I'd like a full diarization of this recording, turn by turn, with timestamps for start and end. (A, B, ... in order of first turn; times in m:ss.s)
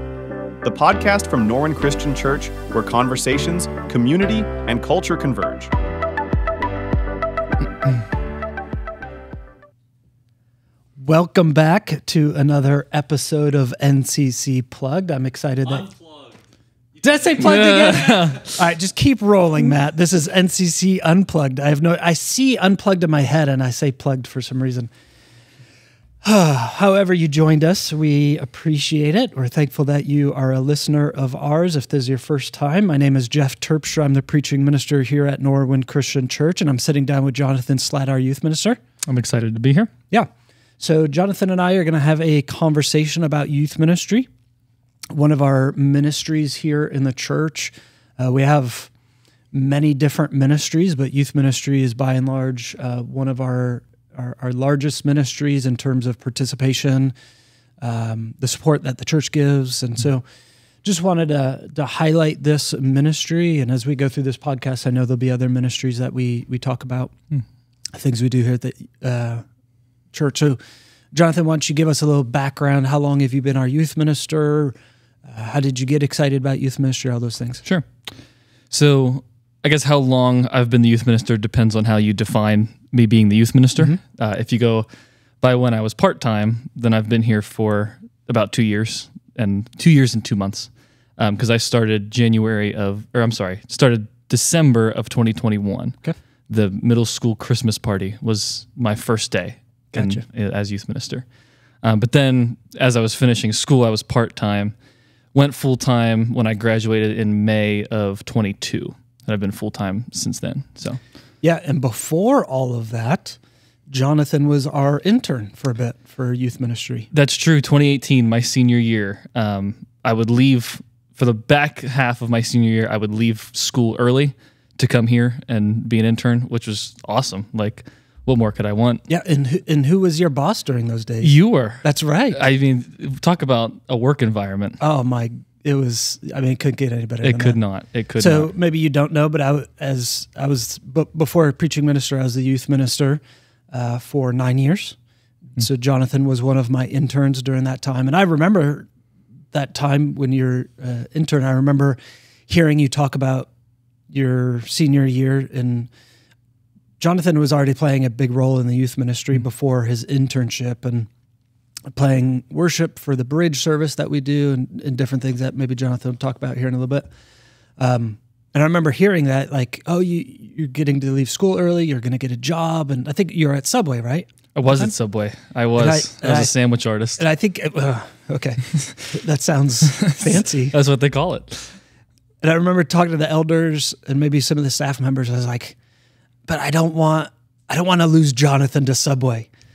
0:00.6-0:05.7 A
0:11.0-0:16.0 B
0:17.0-0:24.9 B
0:17.4-0:18.6 C
0:26.2-0:38.8 B
0:39.0-0:39.9 C
0:40.1-0:44.3 B
0:45.1-0:48.9 B
0:49.5-0:57.1 B
0:57.8-1:00.2 B
1:00.8-1:07.1 B
1:07.9-1:09.4 B
1:10.1-1:10.6 B
1:11.1-1:17.6 B
1:17.6-1:18.1 C
1:18.7-1:24.9 C
1:25.4-1:41.2 C
1:39.9-1:40.2 B
1:41.8-1:44.7 C
1:45.3-1:51.0 C
1:51.4-1:53.4 B
1:53.9-1:57.1 B
1:57.1-2:09.0 C
2:09.1-2:12.4 B
2:11.2-2:14.8 C
2:14.8-2:17.6 B
2:17.2-2:18.5 C
2:18.2-2:25.0 B
2:25.6-2:28.9 B
2:29.5-2:33.5 B
2:34.1-2:35.9 B
2:37.0-2:41.1 B
2:41.9-2:47.1 B
2:47.8-2:54.9 B
2:54.5-2:57.2 C
2:55.8-2:56.5 B
2:57.2-3:00.7 B
3:00.0-3:01.8 C
3:02.4-3:05.8 B
3:06.5-3:09.5 B